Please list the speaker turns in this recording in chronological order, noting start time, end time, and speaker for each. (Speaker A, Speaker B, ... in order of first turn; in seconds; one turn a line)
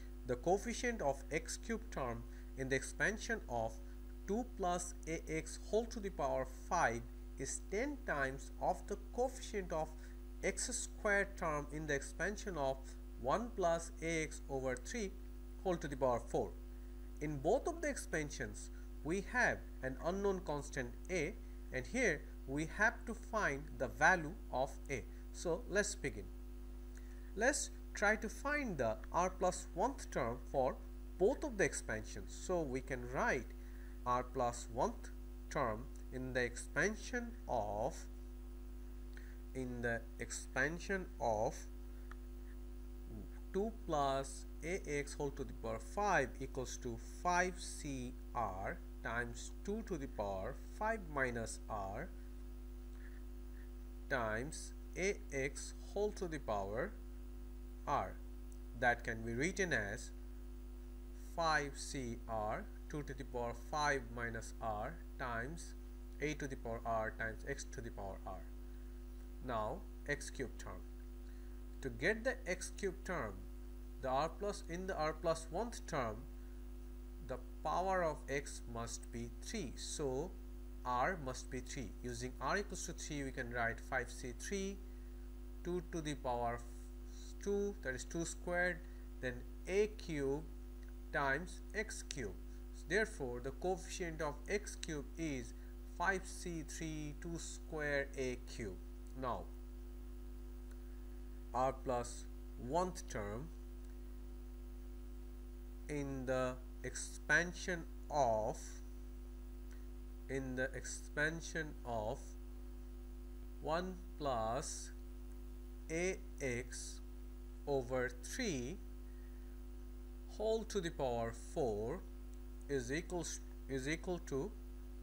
Speaker A: 0.2-16.6
Speaker A: 17.2-26.3
Speaker A: 27.4-38.1
Speaker A: 39.5-41.7
Speaker A: 43.1-52.1
Speaker A: 54.1-57.0
Speaker A: 57.9-58.2
Speaker A: 58.7-60.1
Speaker A: 61.2-68.5
Speaker A: 69.4-70.8
Speaker A: 71.8-73.5
Speaker A: 74.0-76.3
Speaker A: 77.2-84.8
Speaker A: 85.6-90.5
Speaker A: 91.1-99.5
Speaker A: 101.5-103.5
Speaker A: 105.9-108.8
Speaker A: 110.3-112.4
Speaker A: 113.6-115.0
Speaker A: 115.9-117.0
Speaker A: 117.7-118.8
Speaker A: 120.3-122.0
Speaker A: 122.7-124.6